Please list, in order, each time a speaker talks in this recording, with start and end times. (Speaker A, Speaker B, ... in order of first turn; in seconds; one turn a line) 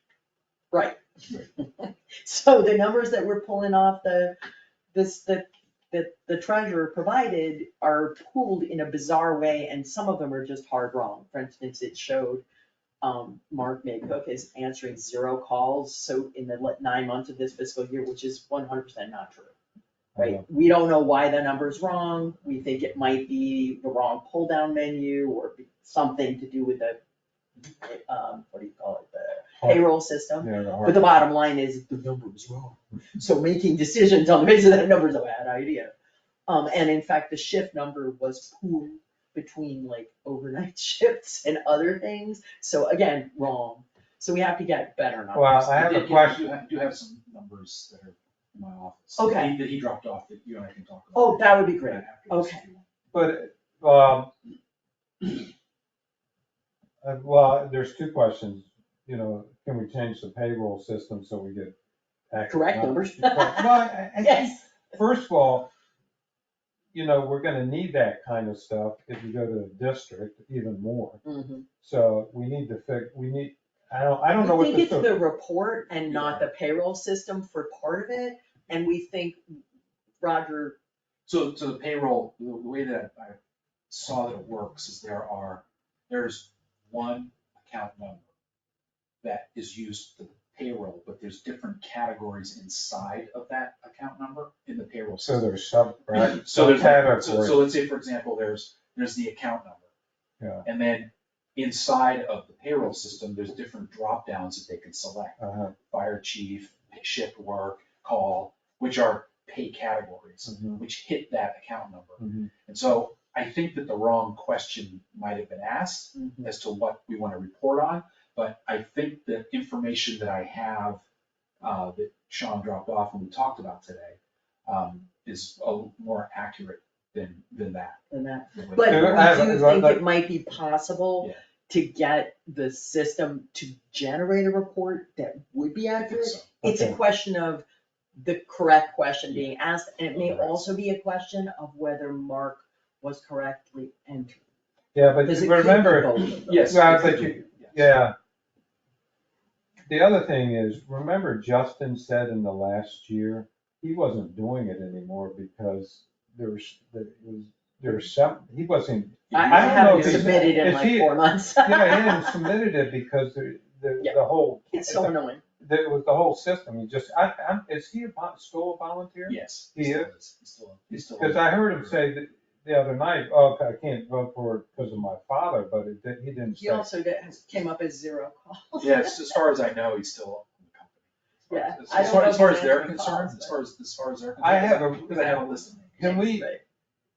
Speaker A: 0.7-4.4
Speaker A: 4.9-12.4
Speaker A: 13.0-19.5
Speaker B: 20.1-20.4
Speaker A: 20.2-27.0
Speaker A: 27.8-35.9
Speaker B: 29.6-29.9
Speaker B: 30.4-31.1
Speaker A: 36.5-46.0
Speaker B: 45.3-46.4
Speaker C: 45.7-52.8
Speaker A: 49.1-49.5
Speaker A: 51.1-52.6
Speaker B: 53.1-54.3
Speaker B: 57.0-61.7
Speaker B: 62.3-65.7
Speaker A: 62.5-64.7
Speaker B: 66.9-71.2
Speaker A: 71.2-71.6
Speaker B: 71.8-75.2
Speaker A: 74.3-79.6
Speaker C: 76.1-76.4
Speaker A: 80.2-80.8
Speaker C: 81.3-83.4
Speaker C: 83.9-88.3
Speaker C: 89.2-95.5
Speaker B: 95.2-97.6
Speaker C: 96.1-99.9
Speaker B: 100.4-100.7
Speaker C: 100.6-105.4
Speaker B: 105.4-105.7
Speaker C: 105.9-121.0
Speaker B: 110.4-110.8
Speaker B: 112.2-112.5
Speaker A: 116.1-116.5
Speaker C: 121.6-128.0
Speaker A: 128.1-137.6
Speaker C: 128.6-129.4
Speaker B: 128.9-130.0
Speaker C: 136.0-136.5
Speaker B: 136.6-137.0
Speaker A: 138.2-144.4
Speaker C: 140.1-140.6
Speaker B: 144.9-148.1
Speaker A: 145.2-147.0
Speaker C: 146.4-147.9
Speaker B: 149.9-170.1
Speaker C: 159.3-160.7
Speaker A: 159.3-162.5
Speaker A: 164.7-165.4
Speaker C: 169.3-172.0
Speaker B: 170.9-176.9
Speaker A: 176.5-179.3
Speaker C: 178.8-186.1
Speaker A: 181.5-183.6
Speaker B: 184.4-186.5
Speaker A: 186.0-186.6